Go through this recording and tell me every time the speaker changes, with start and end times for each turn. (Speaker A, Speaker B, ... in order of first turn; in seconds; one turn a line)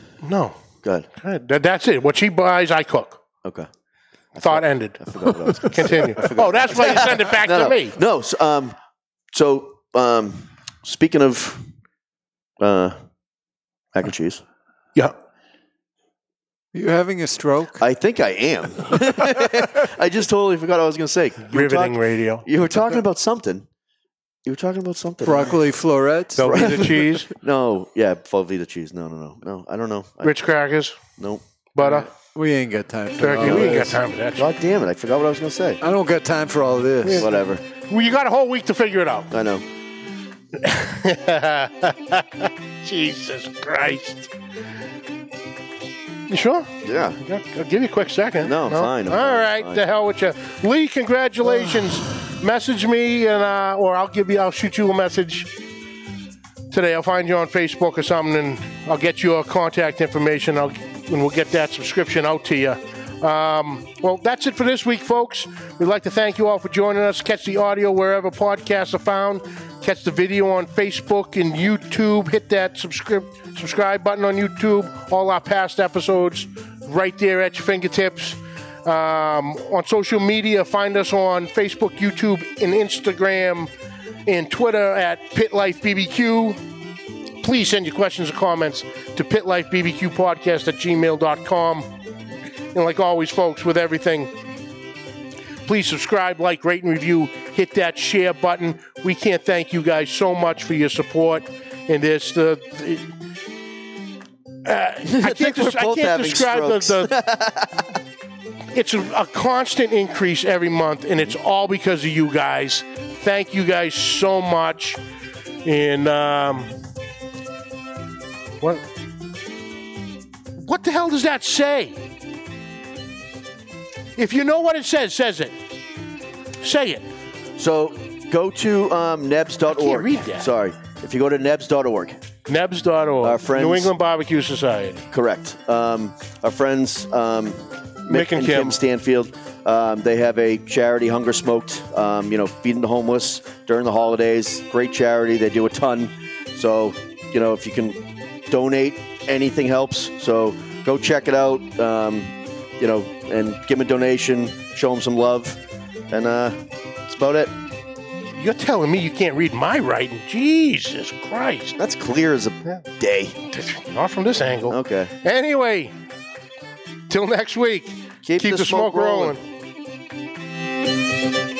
Speaker A: 0.2-0.6
Speaker A: 1.1-3.2
Speaker B: 4.4-8.8
Speaker A: 4.4-8.0
Speaker B: 9.3-11.7
Speaker B: 12.6-13.0
Speaker B: 13.9-14.4
Speaker C: 16.7-17.8
Speaker B: 17.8-23.7
Speaker A: 21.4-22.5
Speaker B: 24.5-25.6
Speaker C: 25.2-26.7
Speaker A: 26.4-27.3
Speaker B: 26.4-30.3
Speaker A: 30.2-31.0
Speaker B: 31.2-32.1
Speaker A: 31.8-32.1
Speaker C: 32.3-34.0
Speaker A: 33.2-34.5
Speaker B: 33.4-33.9
Speaker B: 34.4-35.8
Speaker C: 35.8-37.3
Speaker A: 37.0-39.3
Speaker B: 37.1-37.6
Speaker B: 39.3-39.6
Speaker A: 40.6-44.3
Speaker A: 46.3-55.5
Speaker B: 46.8-47.2
Speaker B: 48.4-49.8
Speaker A: 56.7-83.7
Speaker A: 84.3-86.6
Speaker A: 87.4-91.9
Speaker A: 92.7-94.3
Speaker A: 95.7-103.1
Speaker A: 104.7-107.1
Speaker B: 105.0-107.9
Speaker A: 108.7-115.0
Speaker A: 115.7-116.7
Speaker A: 120.6-122.0
Speaker A: 124.2-125.6
Speaker A: 126.6-127.1
Speaker B: 127.6-132.2
Speaker A: 129.7-130.5
Speaker A: 132.5-135.1
Speaker B: 133.2-133.9
Speaker B: 135.1-157.6
Speaker A: 138.1-138.8
Speaker A: 158.3-161.8
Speaker B: 161.8-163.4
Speaker A: 163.5-165.9
Speaker B: 164.7-165.1
Speaker A: 167.1-169.4
Speaker B: 168.2-169.4